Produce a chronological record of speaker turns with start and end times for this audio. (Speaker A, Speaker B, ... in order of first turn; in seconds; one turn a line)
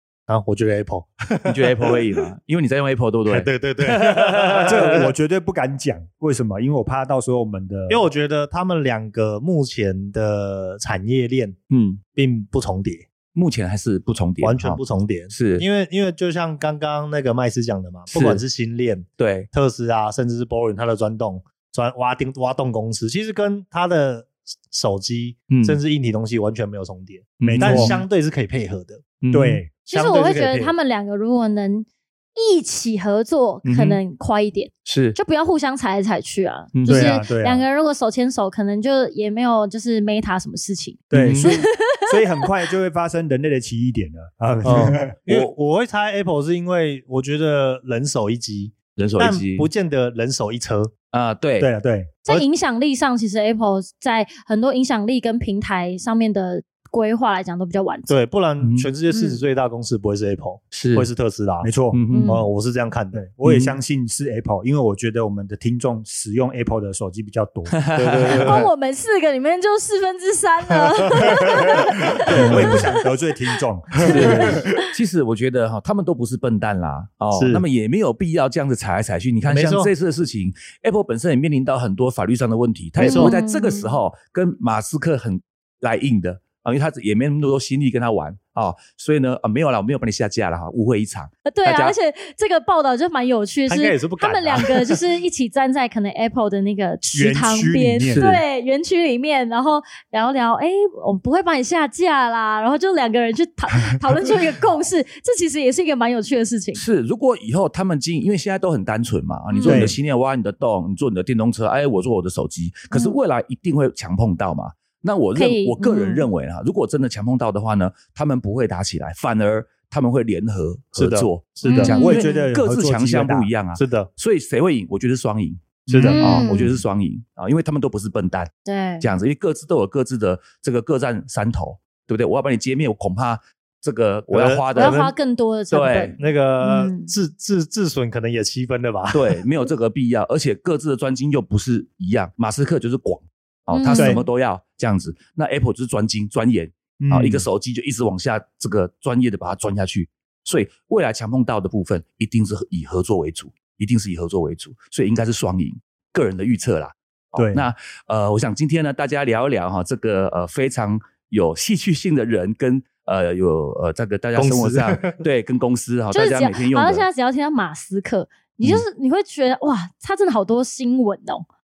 Speaker A: 0.3-2.2
Speaker B: 1.5-4.7
Speaker A: 3.3-5.0
Speaker C: 4.7-8.1
Speaker A: 7.9-11.6
Speaker B: 11.7-12.0
Speaker A: 12.1-13.1
Speaker B: 13.3-15.6
Speaker A: 14.4-29.1
Speaker B: 18.1-18.4
Speaker B: 19.2-19.5
Speaker B: 25.5-25.8
Speaker B: 27.4-28.0
Speaker C: 27.4-27.9
Speaker B: 29.2-29.6
Speaker C: 29.3-29.7
Speaker D: 29.8-41.7
Speaker A: 29.9-30.7
Speaker B: 33.6-34.0
Speaker B: 34.8-35.1
Speaker B: 36.7-37.2
Speaker C: 36.8-37.6
Speaker C: 41.1-45.1
Speaker B: 41.1-41.5
Speaker A: 44.6-50.9
Speaker B: 44.8-45.5
Speaker B: 49.0-49.7
Speaker B: 51.1-51.7
Speaker C: 51.6-52.2
Speaker D: 52.2-58.1
Speaker A: 58.1-61.7
Speaker B: 58.6-58.9
Speaker D: 59.1-59.4
Speaker B: 60.7-61.1
Speaker C: 61.6-62.0
Speaker B: 61.9-62.4
Speaker D: 62.1-62.5
Speaker A: 62.3-63.2
Speaker C: 63.1-67.7
Speaker B: 63.4-63.8
Speaker B: 67.7-68.5
Speaker A: 67.9-68.7
Speaker D: 68.4-72.9
Speaker C: 71.1-71.8
Speaker C: 72.3-74.6
Speaker B: 72.4-72.8
Speaker B: 74.0-91.9
Speaker D: 74.2-74.8
Speaker A: 77.3-77.6
Speaker A: 79.5-79.9
Speaker D: 83.0-84.0
Speaker A: 83.0-83.3
Speaker D: 91.5-106.8
Speaker A: 93.7-95.0
Speaker C: 97.1-98.2
Speaker B: 98.1-98.4
Speaker B: 106.7-135.0
Speaker D: 109.5-109.9
Speaker C: 109.6-110.0
Speaker D: 112.9-113.2
Speaker D: 115.3-116.3
Speaker A: 121.0-121.9
Speaker D: 121.6-122.5
Speaker C: 121.9-123.5
Speaker A: 123.7-124.1
Speaker A: 125.9-126.2
Speaker C: 125.9-126.4
Speaker D: 125.9-126.8
Speaker D: 128.6-129.1
Speaker A: 134.3-135.1
Speaker D: 134.7-137.1
Speaker B: 135.7-136.2
Speaker A: 136.2-139.4
Speaker B: 139.1-167.0
Speaker D: 143.7-144.2
Speaker C: 143.9-144.2
Speaker C: 147.0-147.5
Speaker C: 157.3-157.7
Speaker A: 164.3-165.2
Speaker D: 166.1-171.4